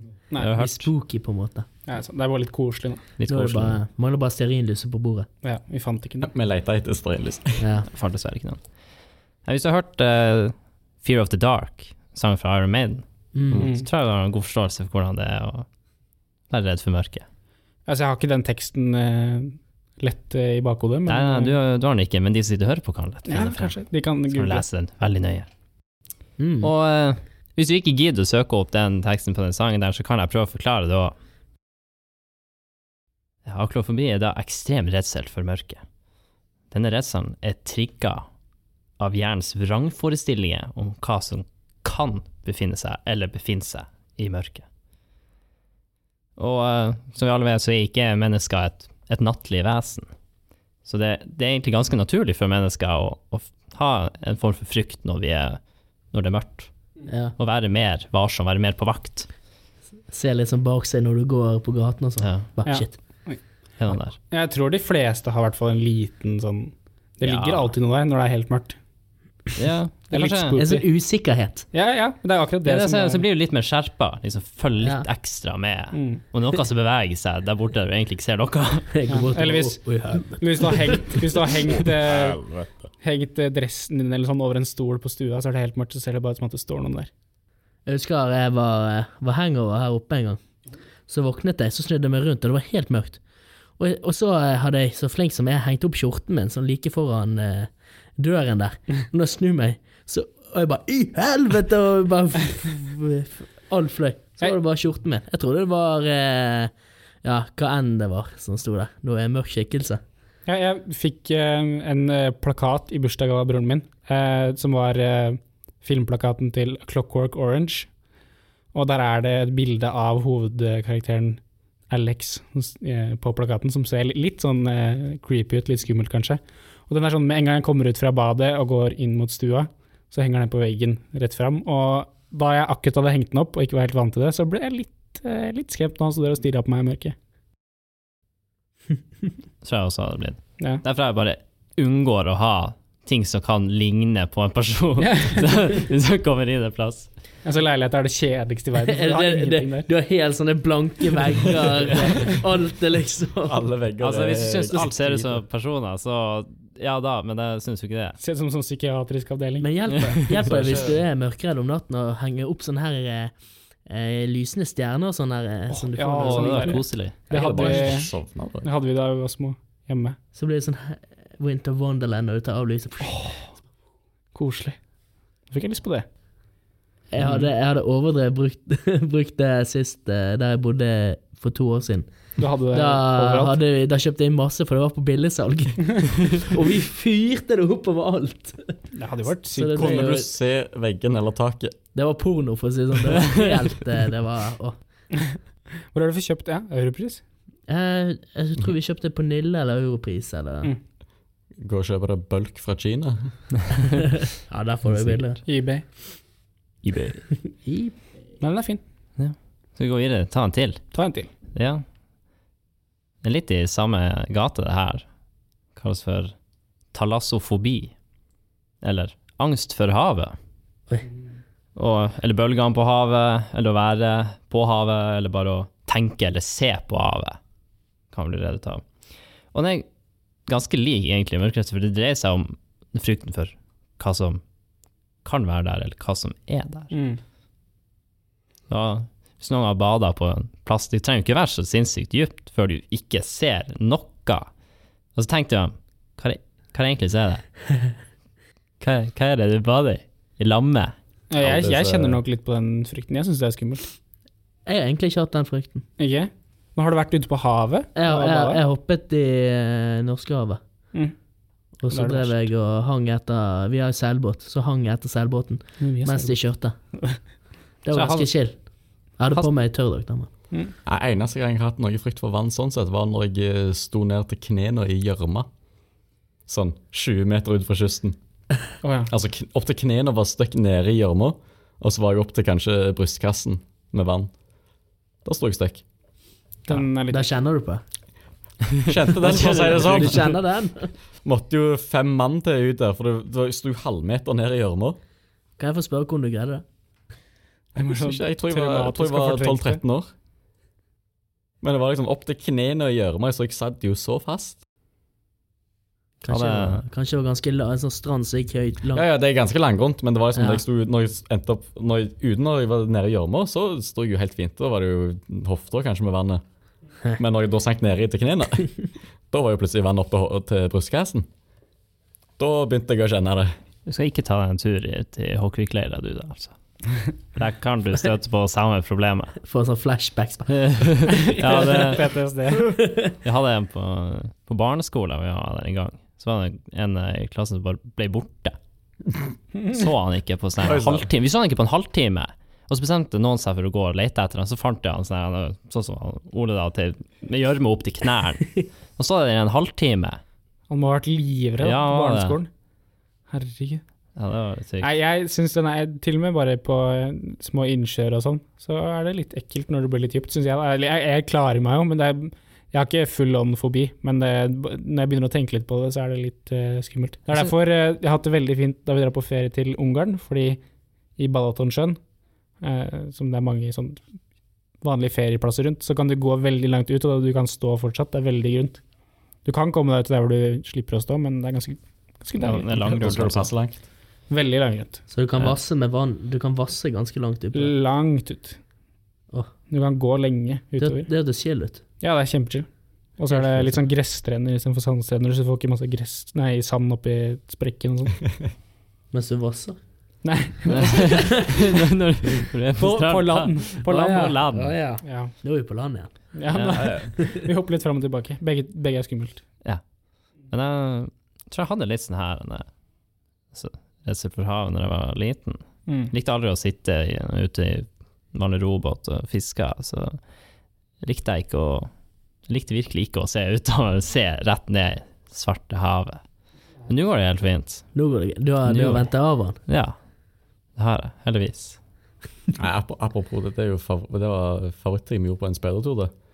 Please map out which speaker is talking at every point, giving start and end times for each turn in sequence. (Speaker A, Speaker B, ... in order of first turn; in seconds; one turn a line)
Speaker A: 0.4-0.9
Speaker B: 0.6-1.7
Speaker C: 1.9-3.0
Speaker A: 3.2-3.8
Speaker B: 3.3-5.3
Speaker C: 5.4-6.3
Speaker D: 6.2-7.6
Speaker B: 7.6-7.9
Speaker A: 7.9-8.6
Speaker A: 9.4-15.7
Speaker B: 13.3-13.7
Speaker C: 13.6-13.8
Speaker A: 16.5-17.2
Speaker C: 17.9-21.6
Speaker A: 21.1-23.8
Speaker C: 23.3-24.6
Speaker A: 24.3-25.5
Speaker B: 26.4-26.7
Speaker A: 26.6-31.1
Speaker A: 33.5-35.8
Speaker A: 36.7-38.2
Speaker A: 39.0-44.6
Speaker A: 46.4-50.1
Speaker A: 50.8-55.6
Speaker A: 56.1-56.7
Speaker B: 57.1-57.3
Speaker A: 57.4-59.3
Speaker B: 60.1-62.9
Speaker A: 62.2-62.5
Speaker C: 62.6-63.4
Speaker A: 63.8-64.2
Speaker C: 64.1-68.8
Speaker A: 67.2-67.7
Speaker A: 69.5-70.6
Speaker C: 70.1-70.8
Speaker B: 70.6-71.7
Speaker C: 71.7-73.2
Speaker A: 72.6-79.0
Speaker C: 75.9-76.2
Speaker B: 78.9-81.2
Speaker C: 79.1-82.4
Speaker D: 82.1-82.7
Speaker C: 83.0-87.1
Speaker B: 87.8-90.4
Speaker B: 91.1-93.2
Speaker B: 93.8-106.7
Speaker B: 107.2-110.0
Speaker C: 110.5-117.9
Speaker C: 118.7-137.1
Speaker A: 139.6-147.1
Speaker C: 145.0-145.5
Speaker C: 147.4-149.9
Speaker B: 148.8-153.6
Speaker D: 153.4-155.4
Speaker A: 154.0-158.2
Speaker C: 158.2-159.7
Speaker B: 159.6-163.3
Speaker D: 160.4-161.0
Speaker B: 163.8-166.8
Speaker C: 165.7-170.2
Speaker A: 166.2-167.1
Speaker D: 167.3-168.7
Speaker B: 170.3-173.2
Speaker C: 173.0-173.5
Speaker C: 174.3-174.8
Speaker C: 175.5-176.0
Speaker B: 177.1-188.8
Speaker C: 182.4-183.6
Speaker C: 188.9-190.0
Speaker B: 189.5-190.3
Speaker D: 189.7-191.8
Speaker B: 191.9-194.8
Speaker C: 195.9-197.2
Speaker B: 197.7-200.7
Speaker D: 201.6-203.3
Speaker B: 204.3-205.4
Speaker C: 205.4-205.9
Speaker A: 206.8-207.2
Speaker B: 207.4-207.9
Speaker C: 208.4-208.8
Speaker A: 209.2-210.8
Speaker C: 210.9-211.3
Speaker A: 211.5-211.8
Speaker A: 213.2-215.0
Speaker A: 215.8-216.3
Speaker A: 216.9-217.9
Speaker A: 218.8-220.3
Speaker A: 221.7-227.4
Speaker A: 228.1-228.8
Speaker A: 229.5-229.8
Speaker A: 230.5-234.4
Speaker A: 235.2-236.9
Speaker C: 236.9-237.2
Speaker A: 238.7-244.5
Speaker A: 245.1-247.5
Speaker A: 248.8-250.9
Speaker C: 251.3-253.9
Speaker D: 251.4-252.2
Speaker B: 254.7-255.8
Speaker C: 256.0-258.6
Speaker B: 257.9-260.6
Speaker B: 261.8-266.7
Speaker C: 261.9-262.4
Speaker C: 265.8-266.4
Speaker B: 267.8-268.6
Speaker C: 267.9-268.3
Speaker B: 269.2-270.3
Speaker D: 270.9-275.5
Speaker D: 276.5-278.2
Speaker C: 278.8-279.1
Speaker D: 279.1-284.3
Speaker D: 285.2-285.8
Speaker C: 286.6-287.3
Speaker B: 287.1-287.8
Speaker A: 288.7-290.3
Speaker D: 288.8-290.4
Speaker B: 289.3-290.9
Speaker D: 291.2-295.0
Speaker B: 295.6-296.6
Speaker C: 297.7-299.8
Speaker D: 297.8-300.1
Speaker D: 301.6-304.6
Speaker B: 306.2-309.0
Speaker A: 306.3-306.8
Speaker D: 308.9-316.4
Speaker B: 310.3-310.6
Speaker D: 317.2-318.7
Speaker D: 319.3-321.3
Speaker D: 322.4-323.5
Speaker A: 323.9-326.5
Speaker A: 327.3-329.4
Speaker B: 329.4-331.7
Speaker A: 330.5-332.0
Speaker C: 331.1-332.7
Speaker B: 332.6-333.1
Speaker A: 333.2-338.6
Speaker A: 339.7-350.2
Speaker D: 340.6-341.1
Speaker C: 350.7-352.5
Speaker A: 351.6-352.4
Speaker C: 353.3-353.8
Speaker A: 354.1-354.9
Speaker C: 354.8-370.6
Speaker C: 371.2-372.0
Speaker C: 372.6-374.0
Speaker C: 374.8-378.8
Speaker C: 379.4-382.7
Speaker A: 382.4-383.5
Speaker D: 382.7-383.8
Speaker C: 384.3-385.0
Speaker B: 385.1-387.7
Speaker C: 387.5-388.6
Speaker C: 389.7-391.1
Speaker B: 390.8-391.8
Speaker C: 392.0-398.2
Speaker B: 393.3-393.7
Speaker B: 399.1-399.8
Speaker C: 400.2-401.3
Speaker A: 400.7-404.7
Speaker C: 402.8-404.4
Speaker B: 403.9-406.2
Speaker C: 405.0-405.3
Speaker C: 406.3-409.4
Speaker A: 406.5-407.0
Speaker D: 406.8-407.1
Speaker A: 410.5-412.6
Speaker A: 413.5-420.2
Speaker C: 415.9-416.1
Speaker A: 421.0-421.9
Speaker A: 422.5-426.2
Speaker A: 426.9-427.9
Speaker B: 427.9-429.6
Speaker A: 428.6-429.1
Speaker A: 429.7-429.9
Speaker A: 430.8-431.8
Speaker D: 432.6-436.1